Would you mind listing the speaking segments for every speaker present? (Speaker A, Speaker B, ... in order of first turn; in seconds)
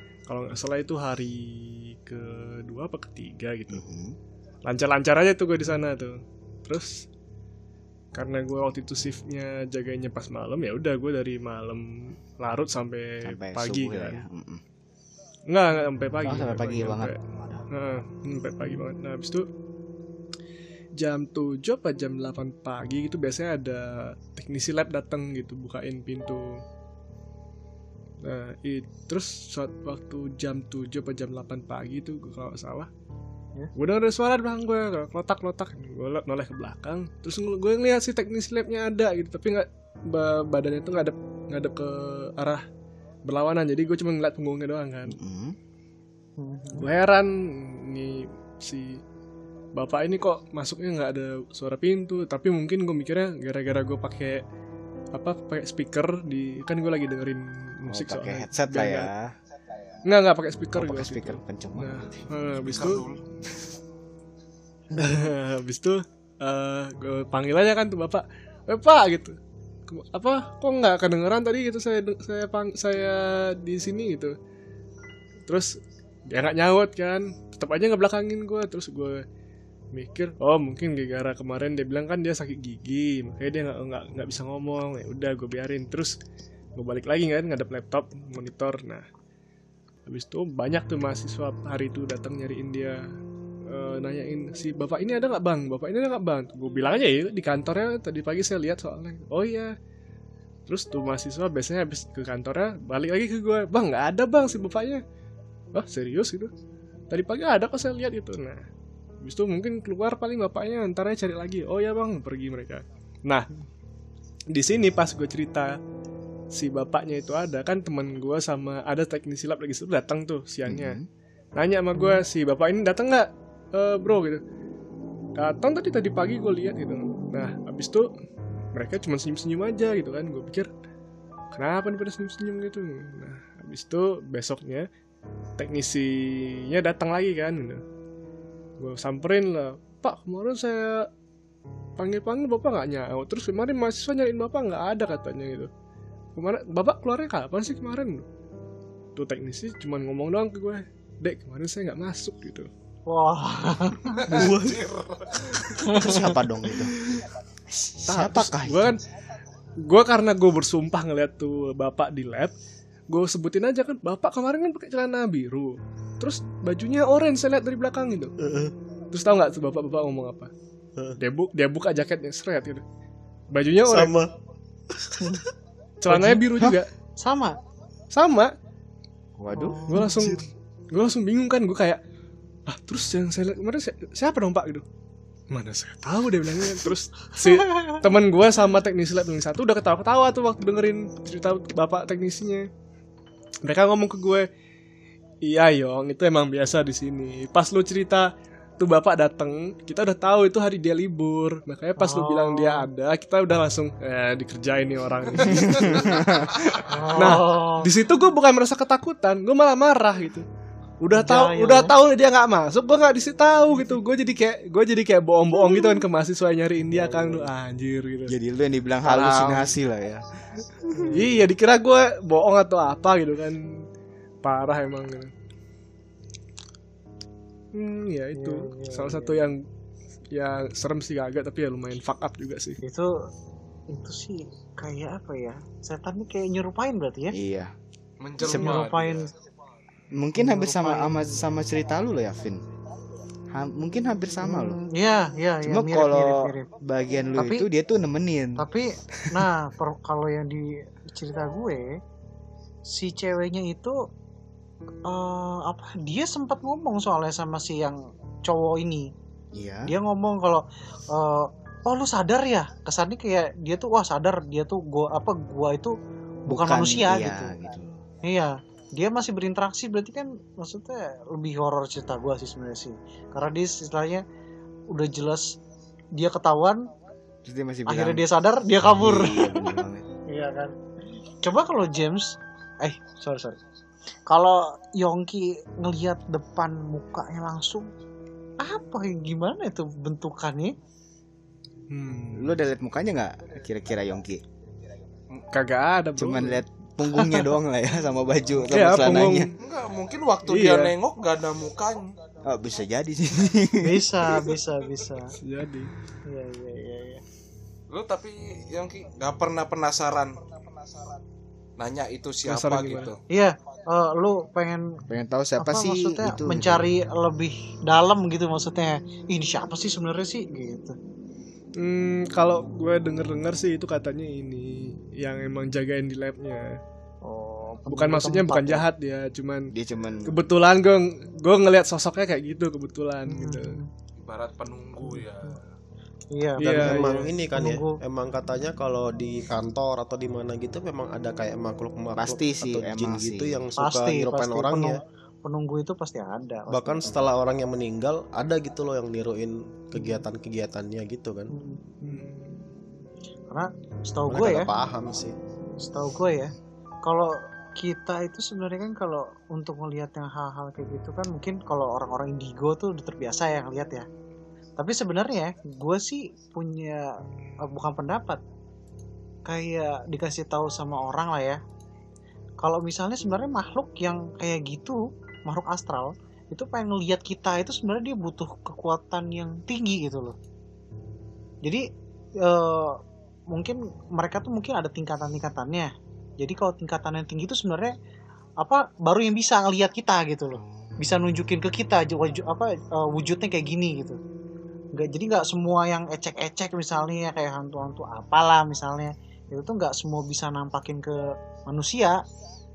Speaker A: 0.3-3.9, 4.7-7.0, 8.1-14.2, 15.5-17.2, 17.7-19.5, 21.0-26.6, 28.2-32.9, 33.8-42.6, 43.2-45.2, 46.7-49.0, 49.7-54.4, 55.1-59.1, 60.0-63.1, 65.0-74.3, 75.5-75.8, 76.3-79.2, 79.9-86.2, 86.8-89.0, 90.1-93.0, 93.7-99.7, 100.7-105.0, 105.7-106.5, 107.1-108.7, 109.2-113.5, 114.5-115.8, 116.5-121.0, 121.5-124.4, 125.4-128.1, 128.7-130.7, 131.5-134.9, 135.6-137.8, 138.8-141.1, 142.0-145.7, 146.3-148.2, 149.1-152.7, 158.1-159.0, 159.8-162.5, 163.1-168.3, 169.1-170.5, 171.2-172.8, 173.5-174.2, 176.0-176.9, 178.1-178.5, 179.9-182.0, 182.7-184.8, 185.5-192.7, 193.6-194.5, 195.4-210.5, 211.0-218.3, 219.1-219.7, 221.1-223.6, 224.4-225.3, 227.7-229.6, 230.3-232.8, 291.9-292.6, 295.5-296.6, 298.6-299.6, 300.4-300.9, 305.4-305.9, 312.4-313.1, 321.8-326.8, 327.9-329.7, 330.2-333.8, 336.6-337.2, 352.0-352.5
Speaker B: 3.7-4.2, 13.2-14.6, 16.2-17.6, 45.1-45.6, 57.9-59.3, 60.7-62.9, 120.7-121.1, 155.9-157.0, 157.7-159.0, 179.4-180.2, 205.5-206.6, 218.3-221.1, 237.3-237.7, 238.4-238.8, 240.1-242.6, 243.5-244.8, 245.6-249.5, 259.5-259.9, 266.5-268.0, 277.4-278.3, 278.8-280.1, 292.3-294.4, 296.1-299.5, 302.4-304.5, 315.1-316.9, 329.7-330.3, 342.1-343.7
Speaker C: 46.4-46.9, 153.1-154.4, 176.1-176.5, 177.2-177.6, 179.5-180.4, 201.9-202.9, 206.9-207.9, 211.1-211.9, 220.9-221.4, 228.3-229.4, 232.8-233.3, 233.9-237.3, 238.4-239.3, 240.3-241.4, 244.4-246.7, 247.4-247.7, 248.6-252.0, 252.8-254.0, 255.0-259.1, 259.9-265.9, 266.5-267.5, 268.2-274.2, 274.9-275.6, 276.1-276.9, 277.9-280.8, 281.4-283.6, 284.3-287.9, 288.6-290.8, 297.1-297.5, 303.8-305.3, 306.2-307.2, 313.3-315.0, 315.6-320.9, 327.2-328.9, 333.3-333.9, 335.0-335.6, 336.3-338.0, 343.8-347.0, 349.9-350.2, 351.5-351.9, 353.5-354.7, 355.8-356.5, 357.0-364.1, 364.8-368.4, 369.4-371.6, 372.6-380.4, 382.4-387.9, 388.6-394.2, 394.9-402.2
Speaker D: 62.7-63.2, 154.2-155.9, 205.5-206.0, 238.2-239.3, 299.6-302.1, 307.9-310.4, 311.8-313.2, 334.2-335.7
Speaker E: 154.3-154.9, 168.4-168.7, 173.9-174.3, 174.9-175.4, 216.9-217.4, 336.6-345.0, 346.7-351.5, 354.3-355.3